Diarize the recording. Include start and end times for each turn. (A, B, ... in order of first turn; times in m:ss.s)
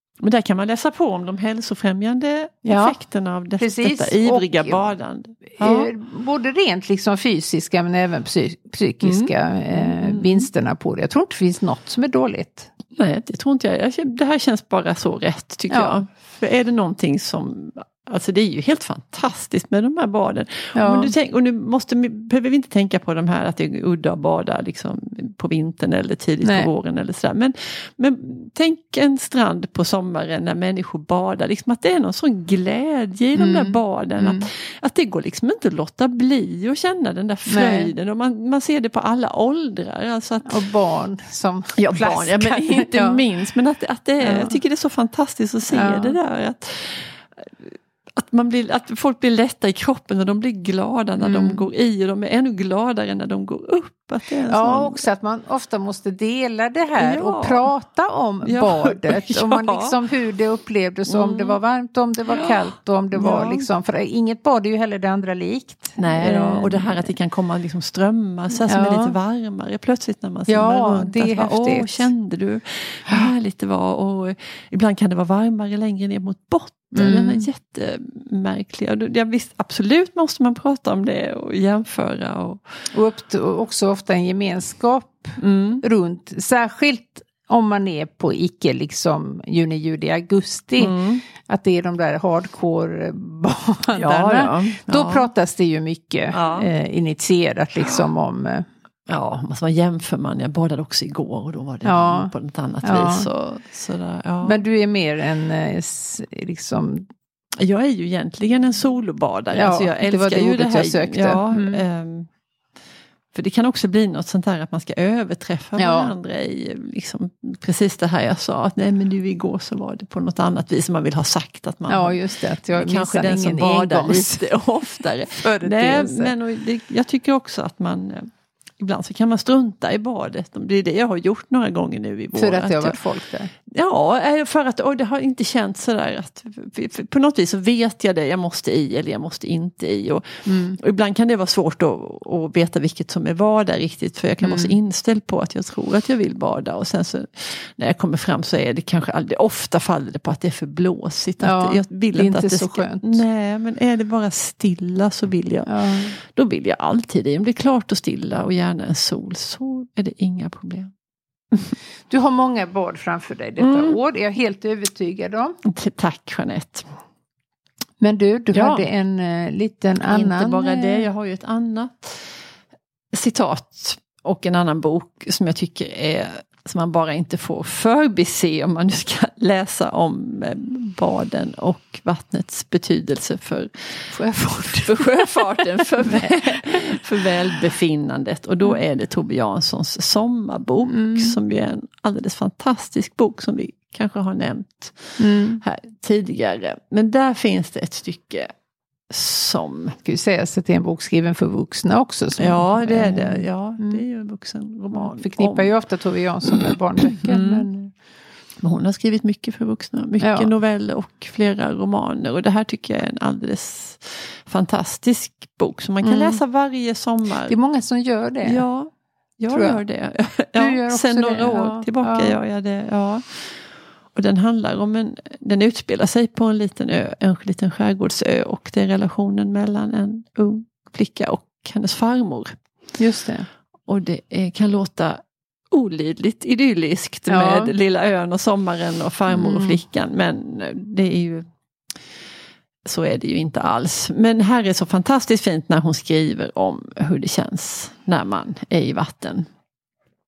0:00.2-0:05.9 A
0:02.6-0:03.0 B
0:03.6-0:04.9 B
0:05.6-0:12.7 B
0:09.0-0:10.5 A
0:13.0-0:40.6 A
0:15.7-0:16.0 B
0:20.8-0:21.2 B
0:26.4-0:26.7 B
0:33.4-0:34.5 B
0:37.5-0:37.9 B
0:40.4-0:43.2 B
0:41.8-0:55.0 A
0:44.2-0:44.6 B
0:45.7-0:46.2 B
0:51.2-0:51.6 B
0:54.5-1:07.1 B
0:57.0-0:57.7 A
0:58.4-1:00.0 A
1:01.1-1:01.6 A
1:02.3-1:02.6 A
1:03.1-1:03.7 A
1:06.0-1:22.6 A
1:08.7-1:09.2 B
1:10.5-1:12.1 B
1:16.9-1:17.5 B
1:22.9-1:38.7 B
1:25.4-1:25.8 A
1:30.8-1:31.2 A
1:33.9-1:35.3 A
1:36.3-1:36.7 A
1:39.1-1:44.6 A
1:41.8-1:42.3 B
1:42.8-1:43.3 B
1:44.4-1:47.1 B
1:47.6-1:52.3 A
1:49.5-1:51.8 B
1:53.3-2:02.2 A
1:55.8-1:56.1 B
2:01.9-2:04.5 B
2:02.7-2:13.0 A
2:05.3-2:06.3 B
2:12.4-2:13.5 B
2:13.7-2:40.9 A
2:20.5-2:20.8 B
2:24.4-2:24.8 B
2:31.4-2:33.2 B
2:35.7-2:36.2 B
2:42.1-2:45.6 B
2:43.6-2:44.0 A
2:45.6-2:46.8 A
2:48.0-2:51.1 B
2:48.5-2:48.9 A
2:50.0-2:52.3 A
2:53.1-3:03.7 A
3:04.1-3:07.0 B
3:04.7-3:18.5 A
3:10.9-3:11.4 B
3:15.2-3:15.6 B
3:19.1-3:20.0 A
3:20.0-3:24.0 B
3:22.4-3:25.7 A
3:24.9-3:27.9 B
3:26.5-3:27.7 A
3:28.6-3:37.6 A
3:30.2-3:30.5 B
3:36.0-3:36.4 B
3:37.5-3:38.6 B
3:38.4-3:43.5 A
3:39.5-3:39.8 B
3:40.6-3:42.4 B
3:44.2-3:52.6 A
3:53.0-3:53.5 B
3:53.9-3:55.2 A
3:55.7-4:01.5 A
3:57.3-3:57.7 B
3:59.3-3:59.8 B
4:02.8-4:09.5 A